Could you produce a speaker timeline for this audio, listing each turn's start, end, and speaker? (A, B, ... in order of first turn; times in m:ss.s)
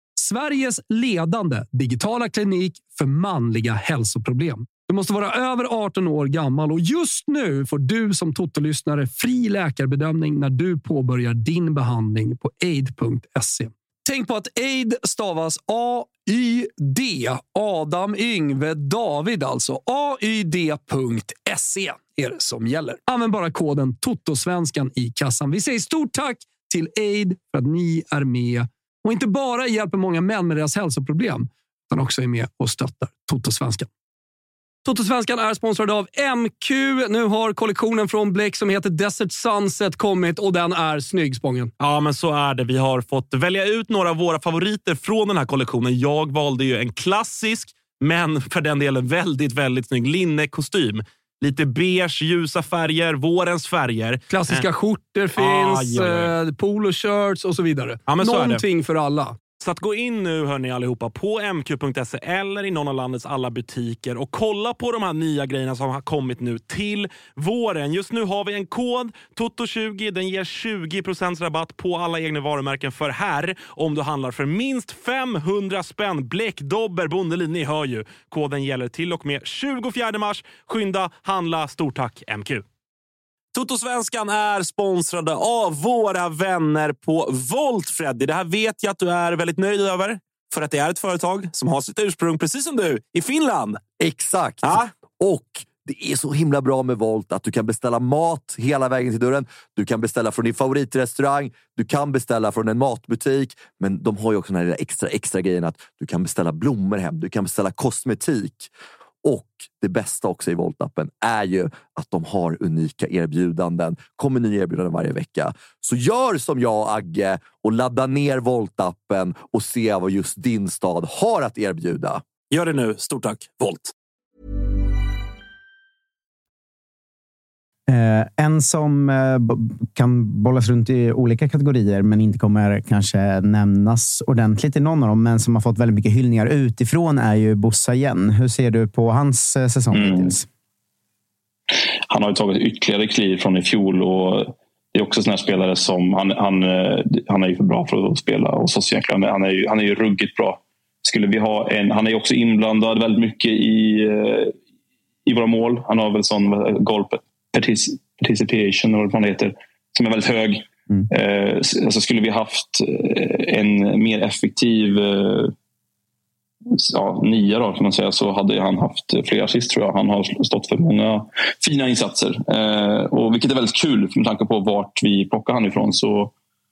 0:00.2-0:33.9 A
0:34.8-0:41.7 A
0:41.8-0:54.7 B
0:54.3-0:59.4 A
0:55.4-0:56.3 B
0:58.1-0:58.6 B
0:59.6-1:22.6 B
1:23.5-1:33.8 B
1:34.0-1:48.7 C
1:34.6-1:34.9 B
1:49.2-2:02.2 C
2:02.5-2:03.9 B
2:07.9-2:20.4 D
2:19.9-2:20.4 E
2:22.1-2:34.5 E
2:35.2-2:45.5 E
2:46.7-2:56.3 E